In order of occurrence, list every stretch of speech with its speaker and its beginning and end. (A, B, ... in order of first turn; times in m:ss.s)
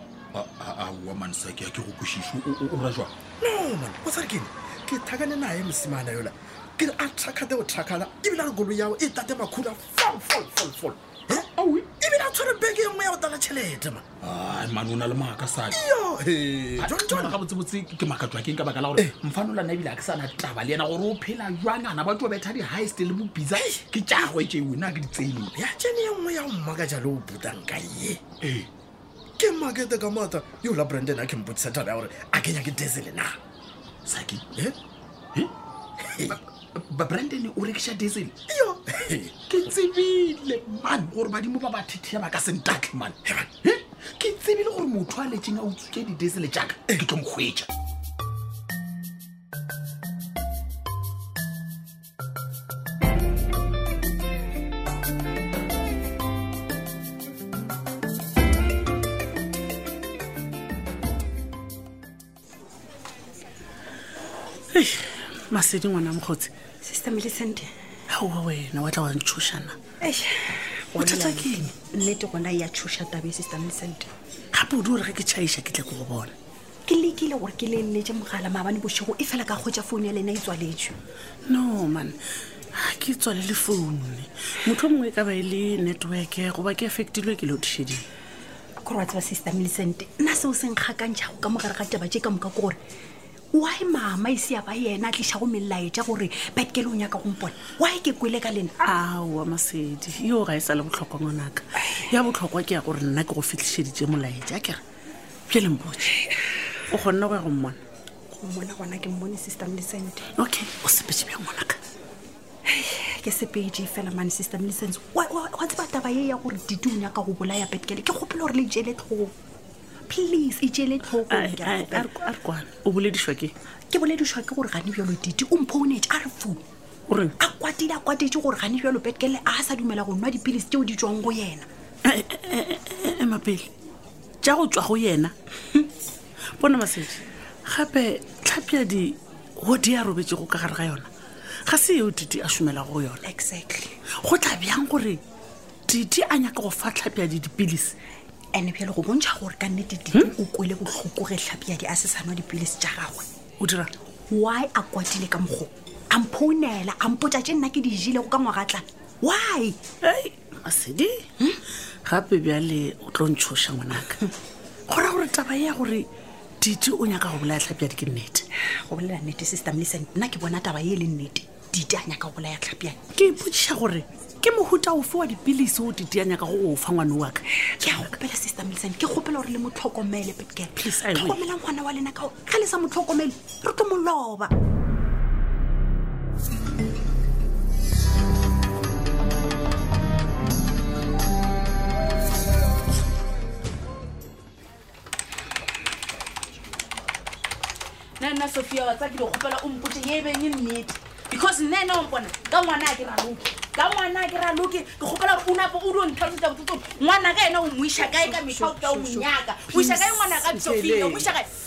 0:00.3-0:03.1 A
0:03.4-0:11.4 B
0:11.6-0:11.9 A
0:12.0-0:14.0 B
0:14.2-0:15.8 A
0:15.7-0:17.4 B
0:16.8-0:25.5 A
0:23.6-0:23.8 B
0:25.6-0:28.2 B
0:28.4-0:28.7 A
0:29.4-0:33.4 B
0:34.0-0:34.7 A
0:36.2-0:38.4 A
0:38.5-0:39.4 B
0:39.5-0:47.7 A
1:04.7-1:06.5 C
1:06.8-1:07.7 D
1:08.1-1:09.8 C
1:10.0-1:14.1 D
1:10.9-1:11.7 C
1:14.5-1:16.3 C
1:16.8-1:21.0 D
1:21.4-1:22.2 C
1:22.7-1:28.0 C
1:28.8-1:32.8 D
1:33.5-1:38.7 D
1:38.8-1:44.8 C
1:45.5-1:46.2 C
1:46.9-1:47.8 C
1:48.3-1:50.2 D
1:50.3-1:51.8 C
1:52.7-1:59.3 D
2:00.1-2:02.1 D
2:01.2-2:03.5 C
2:03.9-2:06.6 D
2:07.1-2:07.4 C
2:07.4-2:11.7 D
2:12.0-2:13.7 C
2:14.4-2:15.9 C
2:16.6-2:21.1 C
2:21.6-2:23.2 C
2:23.2-2:23.9 D
2:24.2-2:25.2 C
2:25.9-2:28.0 C
2:28.5-2:33.2 D
2:33.6-2:33.9 C
2:34.3-2:39.8 D
2:40.0-2:41.3 C
2:42.0-2:44.3 C
2:44.9-2:46.1 C
2:46.6-2:48.4 C
2:48.6-2:53.0 D
2:53.1-2:58.1 C
2:57.8-3:04.5 D
3:00.8-3:01.5 C
3:18.2-3:31.5 E
3:28.2-3:31.2 D